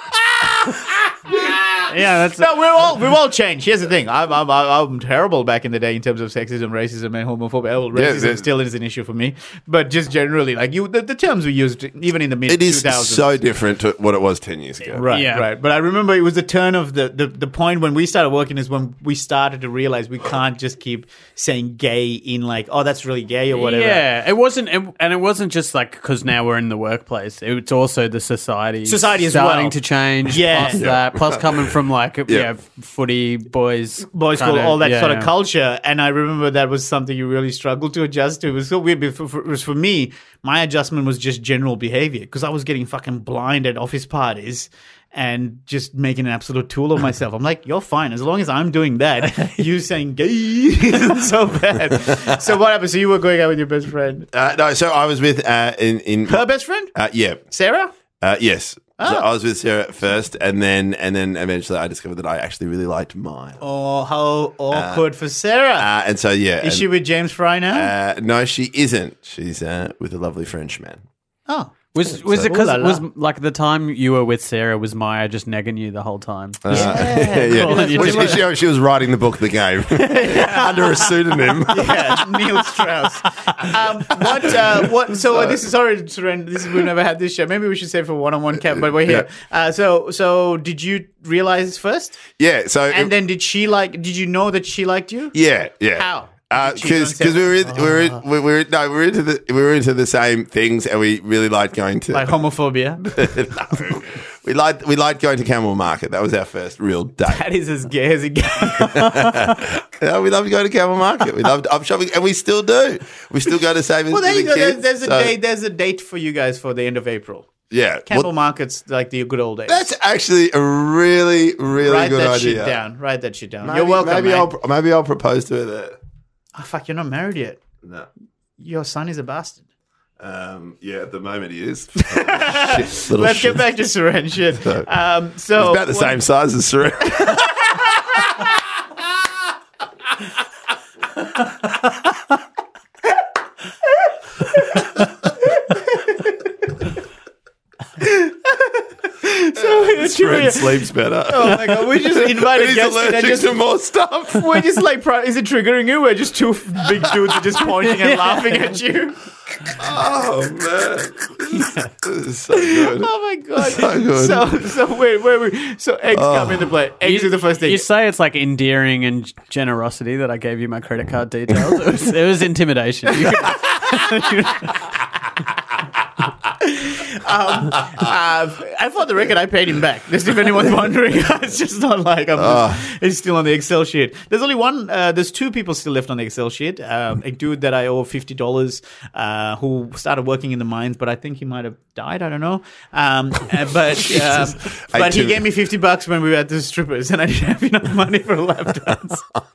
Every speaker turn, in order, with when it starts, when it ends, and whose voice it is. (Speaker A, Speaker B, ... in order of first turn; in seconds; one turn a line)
Speaker A: 0.5-13.4
Speaker B: 1.9-2.5
Speaker C: 7.9-8.4
Speaker C: 12.5-15.0
Speaker A: 14.9-24.0
Speaker B: 15.0-15.4
Speaker B: 23.5-35.3
Speaker A: 28.9-30.8
Speaker C: 30.7-31.7
Speaker A: 34.1-54.3
Speaker C: 54.3-57.4
Speaker A: 56.3-56.9
Speaker A: 57.5-57.9
Speaker C: 58.2-63.6
Speaker A: 59.0-59.2
Speaker A: 63.6-65.9
Speaker C: 64.7-65.0
Speaker C: 65.8-66.8
Speaker A: 66.6-67.9
Speaker C: 67.7-71.0
Speaker A: 71.5-73.0
Speaker B: 71.9-78.4
Speaker C: 76.6-82.6
Speaker A: 76.7-78.4
Speaker A: 80.2-80.9
Speaker B: 80.2-80.7
Speaker A: 81.6-92.3
Speaker C: 83.6-85.6
Speaker C: 88.7-89.2
Speaker C: 92.4-93.1
Speaker A: 92.9-95.3
Speaker C: 95.3-102.3
Speaker A: 95.9-98.2
Speaker A: 102.1-103.2
Speaker C: 103.0-107.4
Speaker A: 107.3-109.5
Speaker C: 108.6-115.3
Speaker A: 114.1-117.5
Speaker C: 117.7-118.3
Speaker A: 118.1-119.9
Speaker C: 119.7-122.8
Speaker A: 121.8-124.5
Speaker C: 123.6-126.0
Speaker A: 126.5-127.6
Speaker C: 127.8-128.1
Speaker A: 128.6-129.6
Speaker C: 130.2-133.6
Speaker A: 132.0-136.2
Speaker C: 134.6-134.8
Speaker C: 135.6-138.5
Speaker A: 137.2-137.9
Speaker A: 144.5-144.9
Speaker A: 145.6-146.3
Speaker A: 148.0-153.6
Speaker C: 149.5-154.7
Speaker A: 154.3-159.2
Speaker B: 157.8-158.8
Speaker C: 159.8-164.5
Speaker B: 161.5-161.9
Speaker A: 162.5-167.8
Speaker C: 166.1-166.7
Speaker B: 167.0-174.8
Speaker A: 176.6-199.3
Speaker C: 182.4-182.8
Speaker C: 194.0-195.4